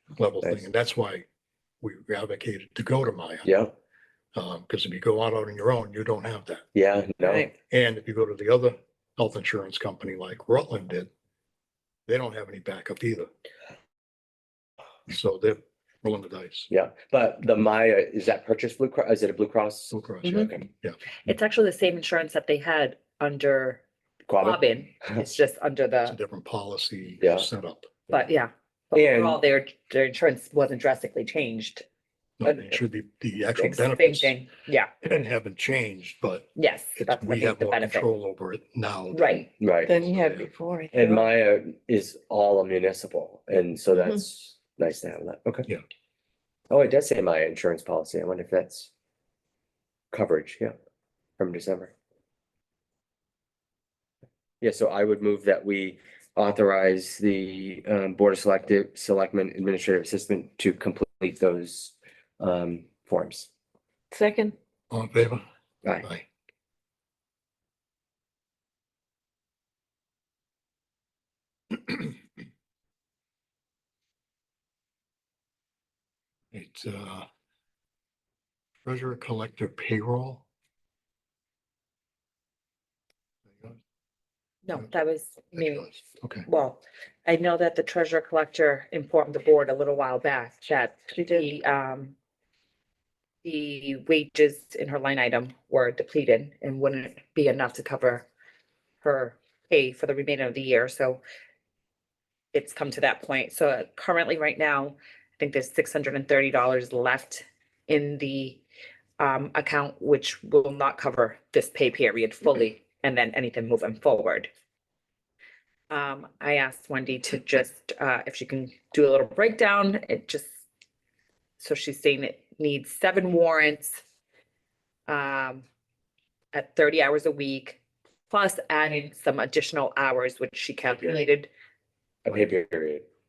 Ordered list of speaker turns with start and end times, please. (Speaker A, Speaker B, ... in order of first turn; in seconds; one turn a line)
Speaker A: 0.2-1.2
Speaker B: 0.4-0.7
Speaker A: 1.8-3.5
Speaker B: 3.4-3.7
Speaker A: 4.3-6.6
Speaker B: 6.7-7.5
Speaker C: 7.2-7.5
Speaker A: 7.7-11.1
Speaker A: 12.1-13.3
Speaker A: 15.1-16.7
Speaker B: 16.7-20.6
Speaker A: 19.9-21.0
Speaker D: 20.2-20.5
Speaker D: 21.3-23.8
Speaker B: 24.3-25.2
Speaker D: 24.4-26.1
Speaker A: 26.1-27.9
Speaker B: 27.2-27.5
Speaker D: 28.1-31.8
Speaker B: 28.9-29.4
Speaker A: 32.4-34.4
Speaker D: 32.4-32.8
Speaker D: 33.5-34.9
Speaker A: 35.0-39.4
Speaker D: 36.5-38.1
Speaker D: 39.1-39.5
Speaker B: 39.6-40.0
Speaker C: 39.8-41.2
Speaker A: 40.1-40.4
Speaker B: 40.9-45.7
Speaker B: 46.7-48.9
Speaker B: 50.1-50.7
Speaker B: 51.4-51.9
Speaker B: 54.6-63.5
Speaker C: 64.1-64.5
Speaker A: 64.9-65.4
Speaker A: 66.0-66.2
Speaker A: 76.5-77.3
Speaker A: 78.8-80.4
Speaker D: 84.6-92.1
Speaker A: 85.5-86.5
Speaker C: 91.1-91.5
Speaker D: 93.4-98.3
Speaker D: 99.0-101.2
Speaker D: 102.5-108.6
Speaker D: 109.2-114.5
Speaker D: 115.9-120.5
Speaker D: 121.6-124.0
Speaker D: 125.1-125.6
Speaker D: 126.5-127.8
Speaker D: 128.3-131.5
Speaker B: 132.2-133.1